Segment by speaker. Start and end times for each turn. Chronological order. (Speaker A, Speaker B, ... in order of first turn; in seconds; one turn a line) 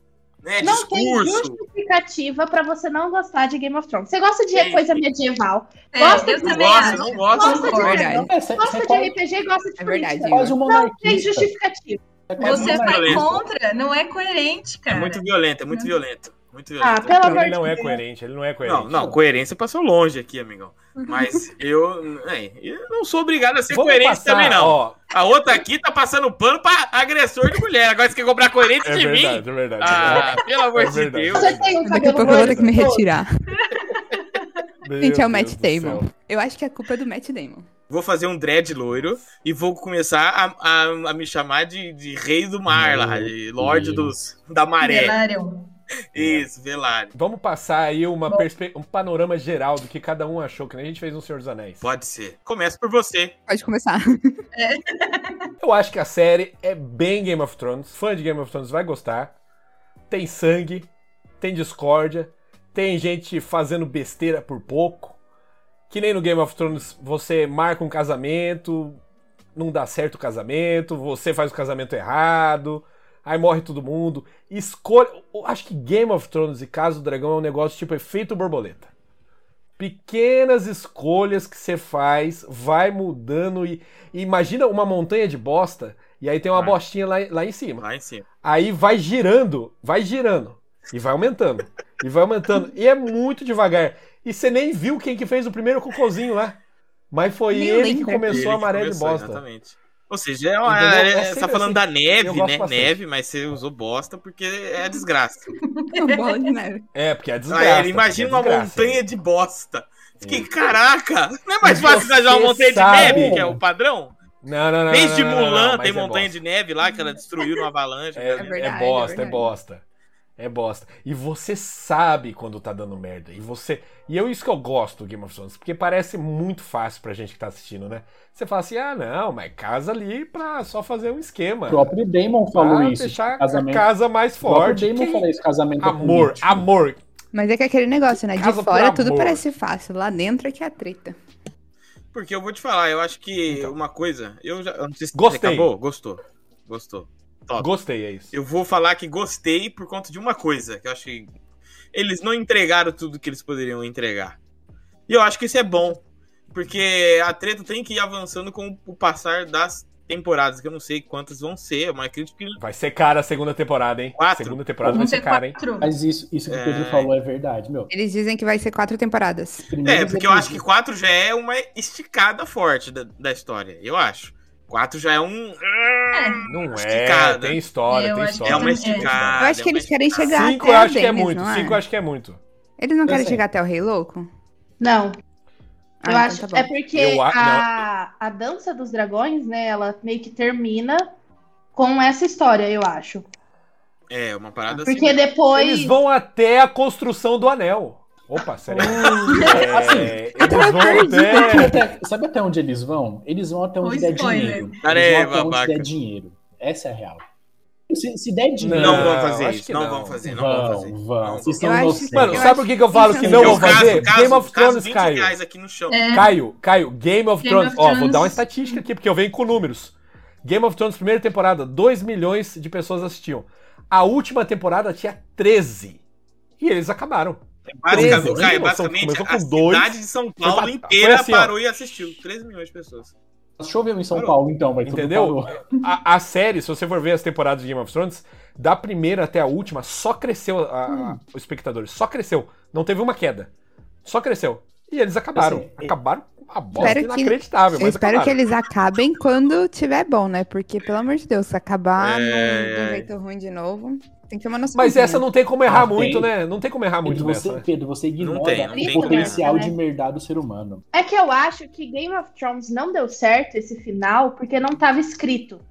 Speaker A: 0.4-1.6
Speaker B: 0.6-12.0
Speaker A: 4.5-5.0
Speaker C: 5.9-8.0
Speaker A: 6.4-7.7
Speaker D: 7.7-8.3
Speaker E: 7.8-9.2
Speaker D: 9.8-10.5
Speaker E: 10.2-11.5
Speaker E: 12.3-13.4
Speaker C: 12.4-15.9
Speaker A: 12.5-13.3
Speaker A: 14.9-17.3
Speaker B: 16.8-18.0
Speaker F: 17.3-19.2
Speaker A: 18.6-31.6
Speaker D: 21.1-21.4
Speaker F: 23.7-25.0
Speaker F: 28.8-32.8
Speaker B: 31.3-33.1
Speaker D: 31.8-33.3
Speaker C: 33.6-34.6
Speaker F: 34.8-36.1
Speaker D: 35.0-37.7
Speaker A: 37.9-45.2
Speaker F: 42.8-44.1
Speaker E: 43.6-44.1
Speaker C: 44.8-45.7
Speaker A: 46.1-47.1
Speaker F: 46.2-46.5
Speaker F: 47.1-51.8
Speaker A: 51.8-53.3
Speaker D: 53.5-54.4
Speaker C: 54.5-55.5
Speaker F: 55.6-59.3
Speaker F: 60.1-60.9
Speaker F: 61.4-65.2
Speaker F: 65.9-69.0
Speaker F: 69.5-78.9
Speaker F: 79.8-87.8
Speaker A: 86.5-86.8
Speaker A: 87.8-88.2
Speaker F: 88.4-96.6
Speaker F: 97.1-99.4
Speaker D: 97.5-98.5
Speaker A: 98.3-105.5
Speaker F: 100.6-103.0
Speaker C: 105.7-106.5
Speaker D: 106.0-106.9
Speaker F: 106.9-109.0
Speaker A: 107.5-114.2
Speaker F: 111.6-113.5
Speaker E: 113.0-113.6
Speaker F: 114.4-116.4
Speaker A: 114.9-118.5
Speaker F: 118.1-119.8
Speaker D: 118.4-119.5
Speaker F: 120.4-131.9
Speaker E: 131.7-133.9
Speaker F: 132.5-135.3
Speaker E: 134.4-136.7
Speaker F: 135.8-137.0
Speaker D: 137.3-141.2
Speaker F: 138.3-139.4
Speaker A: 142.1-147.7
Speaker F: 143.5-143.7
Speaker F: 145.1-145.7
Speaker F: 147.6-148.3
Speaker A: 148.3-151.3
Speaker A: 151.9-154.4
Speaker A: 155.1-162.6
Speaker F: 162.6-165.6
Speaker A: 164.1-164.6
Speaker C: 164.9-165.9
Speaker E: 165.8-167.9
Speaker A: 166.5-167.1
Speaker D: 167.9-169.7
Speaker E: 169.7-170.6
Speaker A: 169.8-177.6
Speaker C: 176.1-176.4
Speaker F: 176.5-179.5
Speaker C: 177.9-179.2
Speaker A: 178.4-180.5
Speaker D: 179.4-181.8
Speaker F: 180.3-182.4
Speaker D: 182.8-184.3
Speaker E: 183.1-183.4
Speaker B: 184.8-185.1
Speaker D: 186.0-186.8
Speaker B: 186.1-191.1
Speaker F: 186.9-187.8
Speaker B: 191.8-193.3
Speaker A: 194.1-195.3
Speaker B: 194.7-196.0
Speaker F: 195.5-201.7
Speaker E: 198.7-207.2
Speaker D: 200.4-201.8
Speaker C: 203.8-204.7
Speaker A: 204.8-205.9
Speaker E: 207.9-209.2
Speaker F: 208.6-210.2
Speaker A: 208.7-212.0
Speaker E: 210.2-212.6
Speaker D: 211.6-214.0
Speaker F: 212.1-215.4
Speaker A: 213.2-216.2
Speaker C: 215.9-216.3
Speaker F: 216.1-226.0
Speaker C: 217.4-218.8
Speaker F: 226.6-231.6
Speaker A: 227.7-233.1
Speaker E: 227.9-228.6
Speaker E: 233.6-235.6
Speaker A: 234.1-234.4
Speaker F: 234.8-243.5
Speaker E: 240.9-241.2
Speaker F: 244.0-248.4
Speaker E: 245.3-245.9
Speaker E: 246.7-247.0
Speaker D: 246.8-255.3
Speaker A: 252.0-253.1
Speaker F: 254.7-257.6
Speaker E: 255.7-256.3
Speaker E: 257.0-260.8
Speaker A: 258.2-259.4
Speaker B: 258.8-259.7
Speaker B: 260.9-265.6